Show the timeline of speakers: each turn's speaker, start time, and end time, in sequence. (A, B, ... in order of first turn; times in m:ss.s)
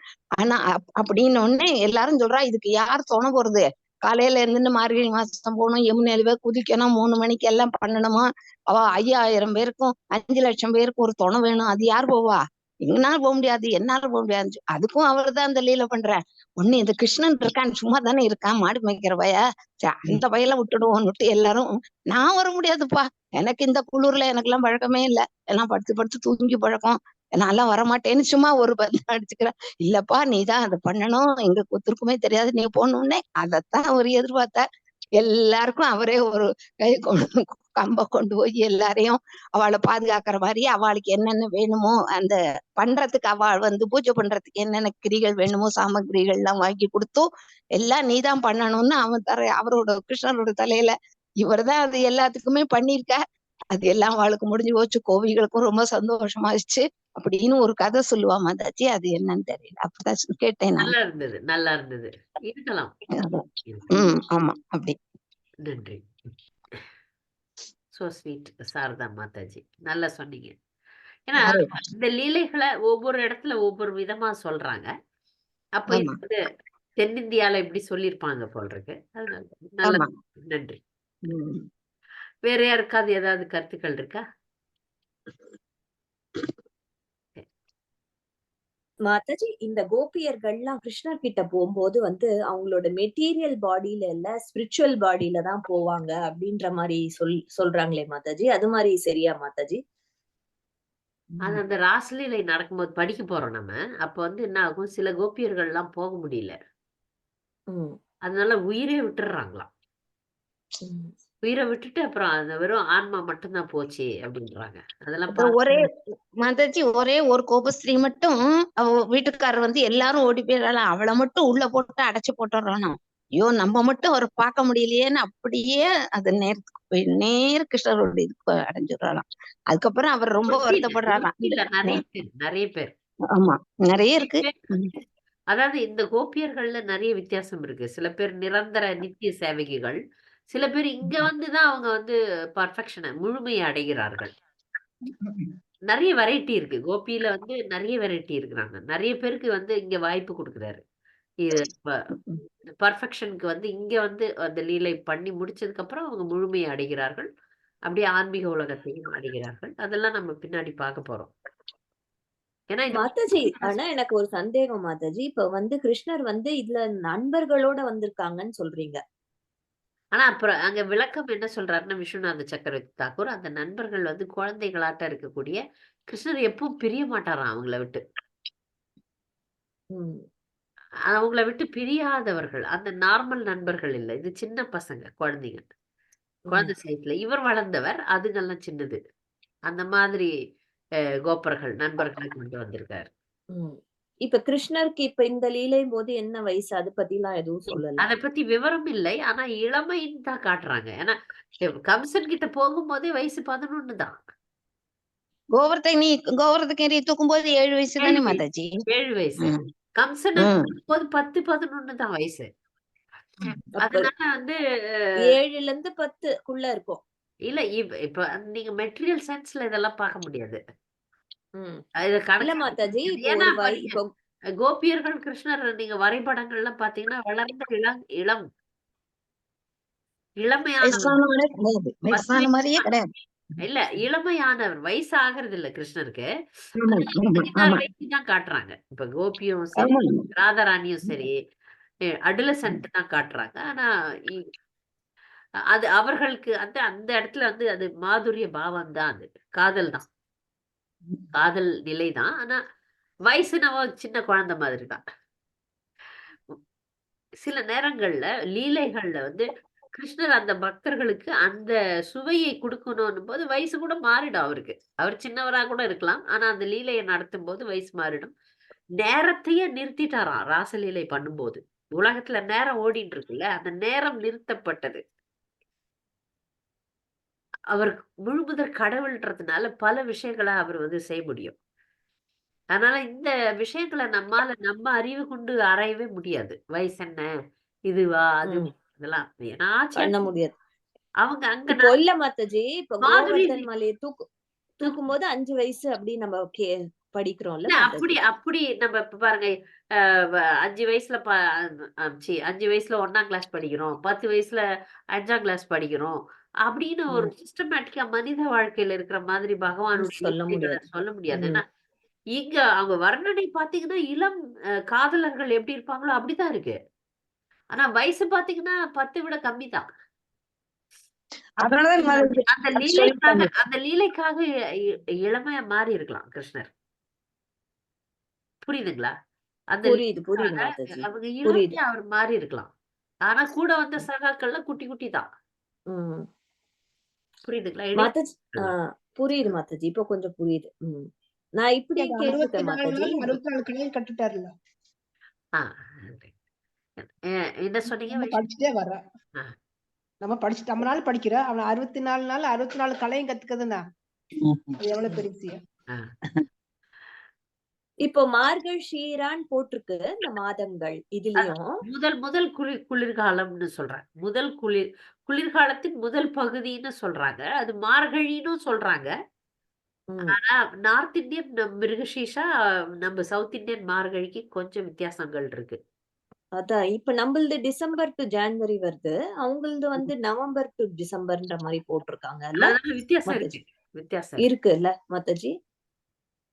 0:00.4-0:34.6 A
0:35.2-0:53.2 A
0:53.7-1:00.9 A
1:00.8-1:02.9 B
1:03.2-1:05.0 A
1:03.6-1:04.0 B
1:05.6-1:06.0 B
1:07.9-1:10.5 B
1:11.3-1:14.9 B
1:11.4-1:11.7 A
1:15.8-1:16.4 B
1:15.9-1:16.2 A
1:17.0-1:20.8 B
1:19.8-1:20.1 A
1:21.3-1:21.6 A
1:22.4-1:24.2 B
1:29.1-1:39.8 C
1:41.4-1:46.6 B
1:47.7-1:48.0 C
1:48.2-1:49.7 B
1:50.8-1:51.1 C
1:51.4-1:55.6 B
1:55.3-2:12.0 A
2:10.5-2:12.9 B
2:13.3-2:14.9 A
2:14.2-2:14.5 B
2:15.5-2:20.0 B
2:20.5-2:24.3 B
2:25.9-2:30.8 B
2:31.4-2:32.0 B
2:32.8-2:37.3 B
2:37.9-2:41.3 B
2:42.7-2:43.7 B
2:42.9-2:49.0 C
2:50.1-2:58.0 B
2:59.9-3:00.2 C
3:01.1-3:05.6 B
3:06.5-3:09.0 B
3:09.7-3:10.3 B
3:11.3-3:13.1 B
3:13.5-3:18.1 C
3:18.0-3:24.1 B
3:25.5-3:28.8 A
3:28.0-3:32.5 B
3:30.4-3:30.7 A
3:33.8-3:34.1 C
3:33.8-3:34.6 B
3:35.3-3:37.0 C
3:37.5-3:40.6 B
3:41.6-3:41.8 C
3:42.0-3:44.0 B
3:42.4-3:44.1 C
3:44.6-3:48.4 B
3:50.4-3:51.1 B
3:50.8-3:53.1 A
3:52.1-3:52.8 B
3:53.6-3:56.3 B
3:56.8-3:57.8 A
3:56.9-4:01.3 B
3:59.8-4:00.2 A
4:02.2-4:04.5 B
4:05.7-4:10.0 B
4:11.3-4:12.6 B
4:13.3-4:15.0 B
4:17.4-4:28.3 B
4:29.0-4:35.0 B
4:37.7-4:41.6 B
4:42.7-4:47.3 B
4:47.9-4:50.2 B
4:50.0-4:50.5 C
4:51.2-4:52.0 B
4:51.7-4:54.2 C
4:53.0-4:53.6 B
4:54.8-4:58.1 C
4:57.7-5:04.6 B
5:05.1-5:11.6 B
5:10.0-5:10.8 C
5:11.3-5:11.6 C
5:12.4-5:14.3 B
5:14.9-5:16.8 B
5:17.7-5:19.8 B
5:21.6-5:23.5 D
5:22.0-5:24.4 B
5:25.2-5:26.7 B
5:28.6-5:29.1 B
5:29.7-5:32.7 B
5:29.8-5:31.7 C
5:33.3-5:35.2 B
5:35.9-5:36.2 C
5:37.5-5:38.7 B
5:38.0-5:43.4 C
5:42.0-5:44.5 E
5:45.6-5:46.3 B
5:47.0-5:48.4 B
5:48.1-5:49.0 E
5:50.2-5:53.8 E
5:54.4-5:54.8 D
5:54.8-5:55.6 E
5:58.0-6:01.8 C
6:01.4-6:09.1 B
6:10.1-6:10.4 C
6:10.2-6:12.4 B
6:13.0-6:15.8 B
6:16.6-6:22.7 C
6:22.6-6:24.5 B
6:23.3-6:23.6 C
6:24.4-6:25.5 C